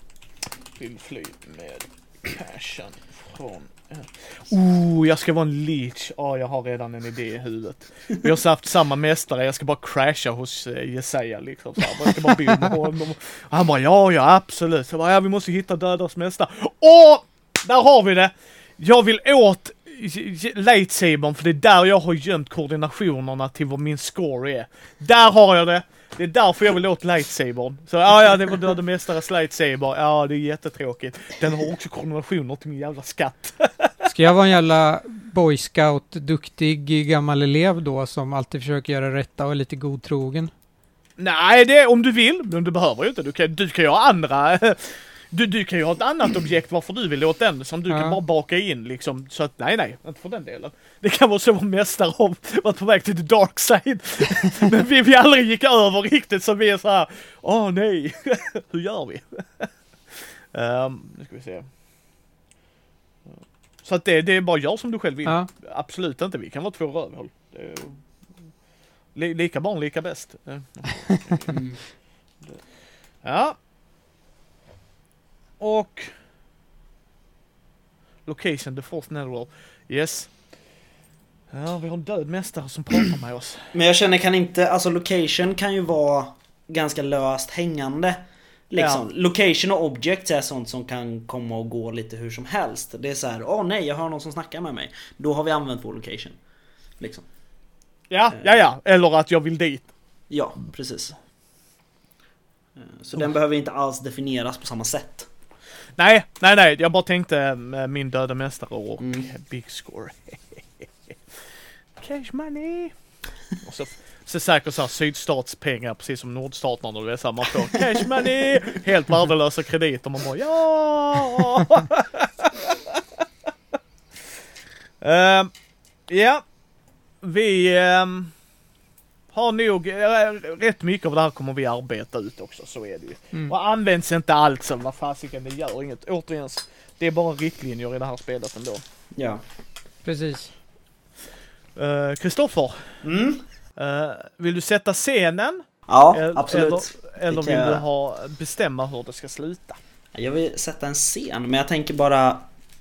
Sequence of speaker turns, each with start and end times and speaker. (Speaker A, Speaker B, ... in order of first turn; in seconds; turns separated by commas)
Speaker A: 0.8-34.1, Speaker B: 34.1-40.5, Speaker A: 41.2-61.7, Speaker B: 47.9-48.2, Speaker A: 63.3-68.0, Speaker A: 69.1-71.6, Speaker C: 71.5-71.8, Speaker A: 73.2-73.5, Speaker A: 75.6-76.1, Speaker A: 78.2-80.4, Speaker A: 81.5-83.7, Speaker C: 83.7-96.4, Speaker A: 88.8-89.0, Speaker C: 97.0-97.3, Speaker A: 98.1-99.9, Speaker C: 100.3-101.2, Speaker C: 102.8-105.3, Speaker A: 106.0-111.2, Speaker C: 109.0-109.3, Speaker A: 112.0-112.9, Speaker A: 113.6-123.2, Speaker A: 125.0-125.5, Speaker A: 126.1-126.4, Speaker A: 127.2-128.3, Speaker A: 129.3-138.8, Speaker C: 139.1-139.4, Speaker B: 140.0-140.5, Speaker A: 141.8-143.0, Speaker C: 143.0-143.4, Speaker A: 143.8-149.8, Speaker C: 145.9-147.8, Speaker C: 150.1-152.5